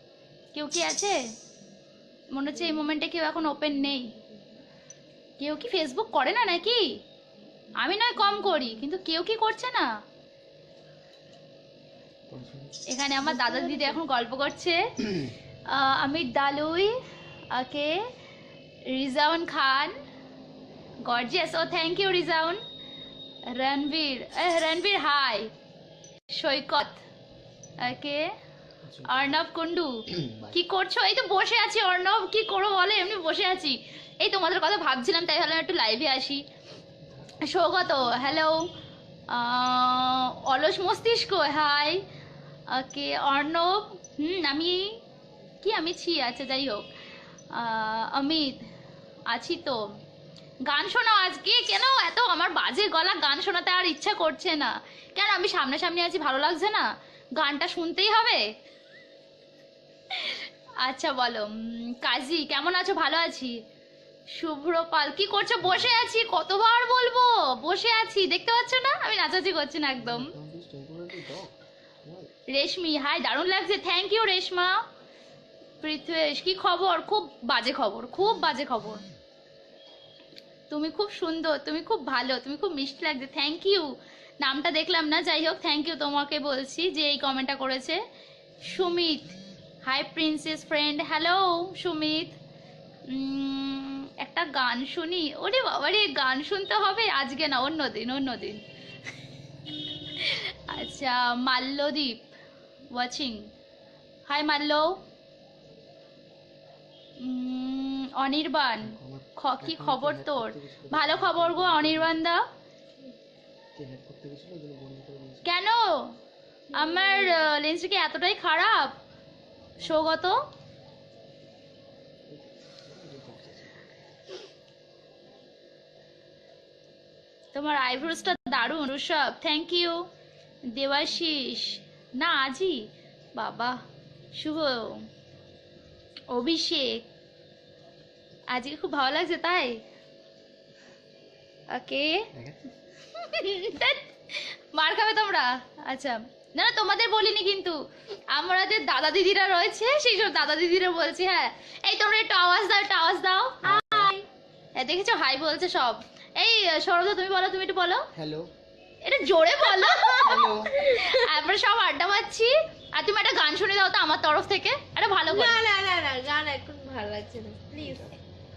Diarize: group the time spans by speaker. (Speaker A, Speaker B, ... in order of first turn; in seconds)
Speaker A: 0.5-1.1, 2.3-4.0, 5.4-6.8, 7.8-9.9, 12.9-14.8, 15.7-16.9, 17.5-18.0, 18.9-20.0, 21.0-22.6, 23.5-25.5, 26.4-27.0, 27.8-28.3, 29.1-36.4, 37.4-38.7, 39.3-42.0, 42.7-45.0, 45.6-46.9, 47.5-48.6, 49.3-49.8, 50.7-58.5, 60.1-63.5, 64.3-70.3, 72.5-74.8, 75.8-79.0, 80.7-83.9, 84.4-88.0, 88.7-89.3, 89.8-92.4, 93.1-98.6, 100.0-102.2, 102.9-103.5, 104.3-105.0, 107.2-112.4, 115.4-116.1, 116.7-119.0, 119.8-120.4, 127.5-130.1, 130.7-133.8, 134.4-135.1, 136.3-137.1, 138.5-139.8, 141.7-142.3, 143.2-147.8, 148.3-154.2, 154.8-158.1, 159.0-165.6
Speaker B: 12.3-12.8, 28.8-29.4, 65.6-66.0, 70.0-72.3, 108.8-112.2, 113.8-115.5, 122.3-123.8, 153.6-154.1, 158.2-158.5, 160.3-160.7, 167.8-168.1
Speaker C: 116.8-117.4, 159.8-161.3, 165.3-168.2